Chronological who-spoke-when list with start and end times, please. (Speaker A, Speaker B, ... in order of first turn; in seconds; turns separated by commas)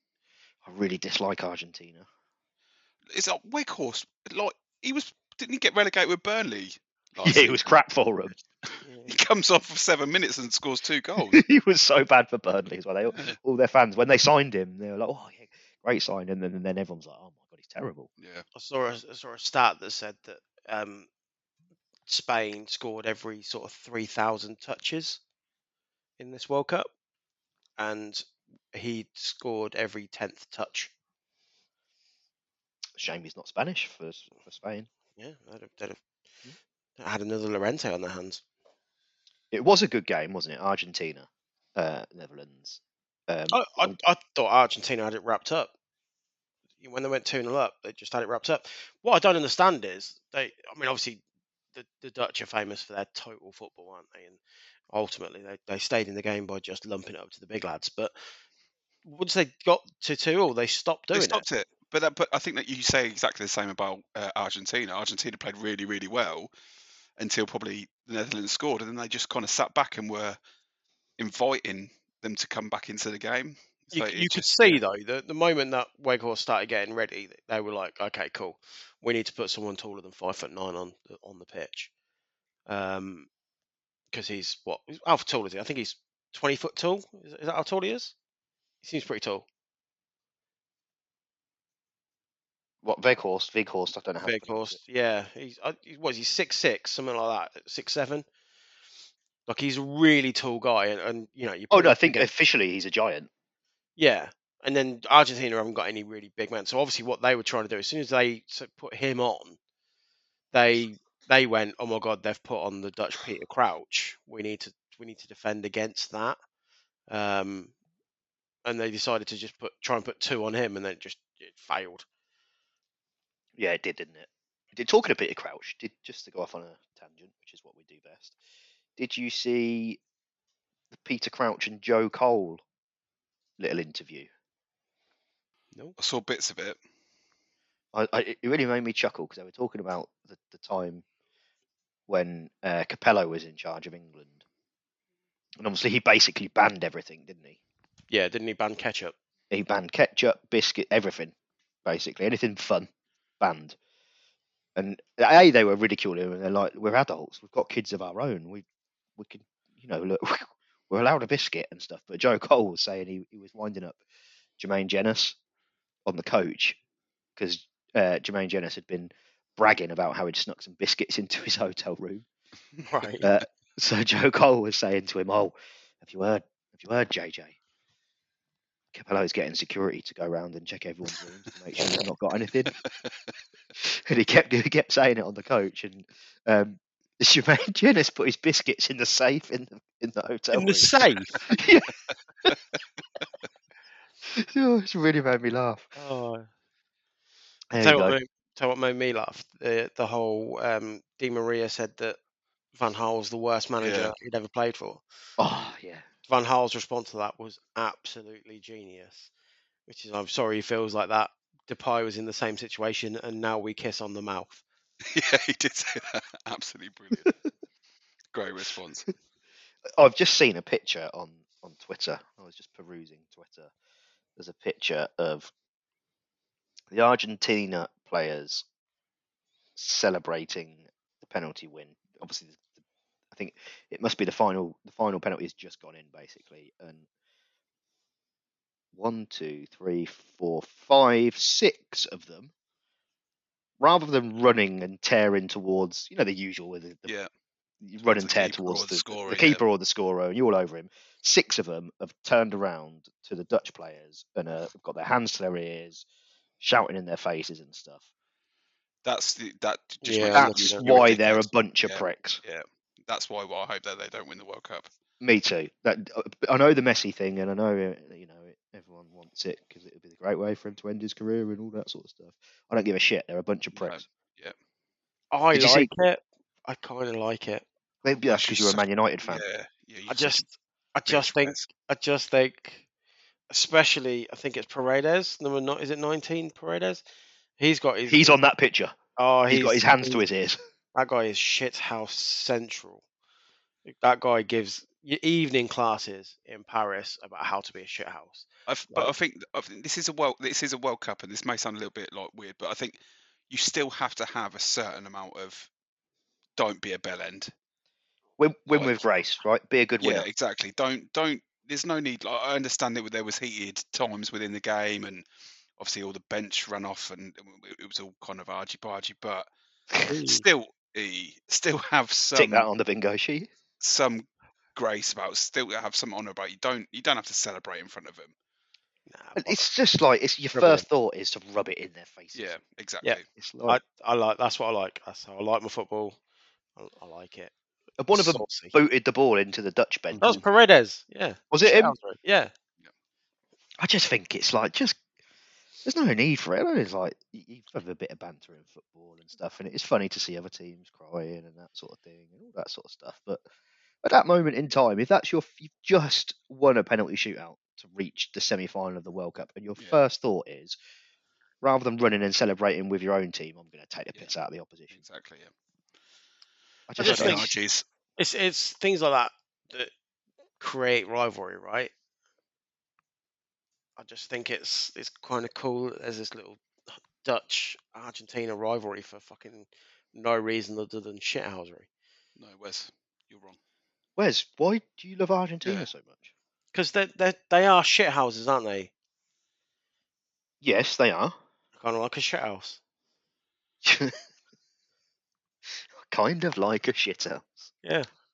Speaker A: 0.7-2.1, Speaker B: 3.1-7.8, Speaker A: 7.2-8.4, Speaker B: 8.7-11.4, Speaker C: 8.8-9.2, Speaker A: 11.3-18.1, Speaker B: 18.2-18.4, Speaker C: 18.6-21.1, Speaker C: 22.1-25.2, Speaker C: 26.2-26.9, Speaker C: 27.8-30.9, Speaker A: 33.0-34.9, Speaker C: 35.2-36.0, Speaker C: 37.0-38.4, Speaker A: 39.5-44.0, Speaker C: 43.5-45.7, Speaker C: 46.8-51.2, Speaker C: 51.7-54.4, Speaker C: 54.9-58.1, Speaker C: 59.0-61.4, Speaker B: 61.1-66.5, Speaker B: 67.2-70.4, Speaker B: 71.2-74.8, Speaker C: 73.9-81.9, Speaker C: 82.7-83.3, Speaker C: 84.1-88.1, Speaker C: 88.8-89.5, Speaker A: 92.8-94.8, Speaker C: 94.2-98.2, Speaker C: 99.5-102.3, Speaker A: 101.7-103.3, Speaker C: 104.0-109.6, Speaker C: 110.5-116.4, Speaker C: 117.1-117.7, Speaker C: 118.7-122.0, Speaker A: 123.6-128.4, Speaker A: 129.0-130.0, Speaker A: 130.9-132.6, Speaker A: 133.6-134.3, Speaker B: 136.0-136.8, Speaker A: 137.9-141.1, Speaker A: 142.1-144.4, Speaker A: 145.6-147.6, Speaker C: 148.1-149.2, Speaker A: 149.5-151.3, Speaker A: 151.8-152.9, Speaker A: 153.4-153.8, Speaker A: 154.8-158.7, Speaker A: 159.2-164.0, Speaker A: 164.6-165.4, Speaker A: 166.1-166.8, Speaker A: 167.4-172.3, Speaker C: 172.9-173.3, Speaker A: 173.2-177.6, Speaker A: 178.9-182.8, Speaker A: 183.8-191.0, Speaker C: 190.5-191.4, Speaker A: 191.5-192.6, Speaker A: 194.3-195.9, Speaker C: 196.0-196.5, Speaker A: 197.7-198.2, Speaker C: 197.8-202.2, Speaker C: 202.7-205.0, Speaker B: 203.8-204.1, Speaker A: 205.4-206.1, Speaker C: 206.3-209.3, Speaker C: 209.9-214.6, Speaker B: 215.0-217.3, Speaker B: 218.3-219.1, Speaker A: 220.0-223.7, Speaker A: 224.4-225.5, Speaker A: 226.9-228.6, Speaker A: 229.8-232.6, Speaker A: 233.3-237.1, Speaker A: 238.9-242.5, Speaker A: 243.8-247.1, Speaker B: 247.1-247.3, Speaker A: 247.8-256.1, Speaker B: 248.0-249.6, Speaker A: 256.6-258.1, Speaker B: 259.0-264.9, Speaker C: 260.0-260.9, Speaker A: 260.3-262.4, Speaker A: 265.2-274.0, Speaker B: 273.8-274.6, Speaker C: 275.3-277.6, Speaker A: 275.5-275.9, Speaker A: 278.0-279.4, Speaker B: 278.3-280.4, Speaker C: 280.1-282.8, Speaker B: 281.1-281.7, Speaker C: 283.5-287.0, Speaker C: 287.6-288.4, Speaker A: 288.1-289.0, Speaker C: 289.2-290.2, Speaker A: 289.5-290.6, Speaker C: 290.9-293.0, Speaker C: 293.9-299.1, Speaker B: 298.7-303.0, Speaker B: 303.5-305.7, Speaker B: 306.6-307.5, Speaker A: 308.4-310.3, Speaker B: 308.7-309.0, Speaker B: 310.0-315.3, Speaker B: 315.8-319.5, Speaker C: 320.1-320.4, Speaker B: 320.2-322.7, Speaker A: 322.4-323.5, Speaker B: 323.8-328.3, Speaker C: 329.1-329.7, Speaker A: 329.4-332.6, Speaker C: 330.6-330.9, Speaker B: 332.3-333.3, Speaker C: 333.0-336.2, Speaker A: 333.4-333.8, Speaker C: 336.8-337.5, Speaker A: 338.0-340.4, Speaker C: 338.1-338.8, Speaker B: 340.1-340.4, Speaker C: 340.2-342.5, Speaker A: 341.5-342.0, Speaker A: 343.8-345.0, Speaker A: 345.9-353.4, Speaker A: 354.0-360.8, Speaker A: 361.6-365.0, Speaker B: 364.9-365.5, Speaker A: 366.9-367.5, Speaker C: 367.0-367.5, Speaker B: 367.0-367.9, Speaker C: 368.2-369.9, Speaker C: 370.6-371.9, Speaker C: 374.0-381.9, Speaker B: 382.4-383.6, Speaker A: 384.2-386.3, Speaker C: 386.7-388.9, Speaker A: 390.6-391.4, Speaker C: 391.8-392.8, Speaker A: 393.8-394.2, Speaker A: 396.0-397.7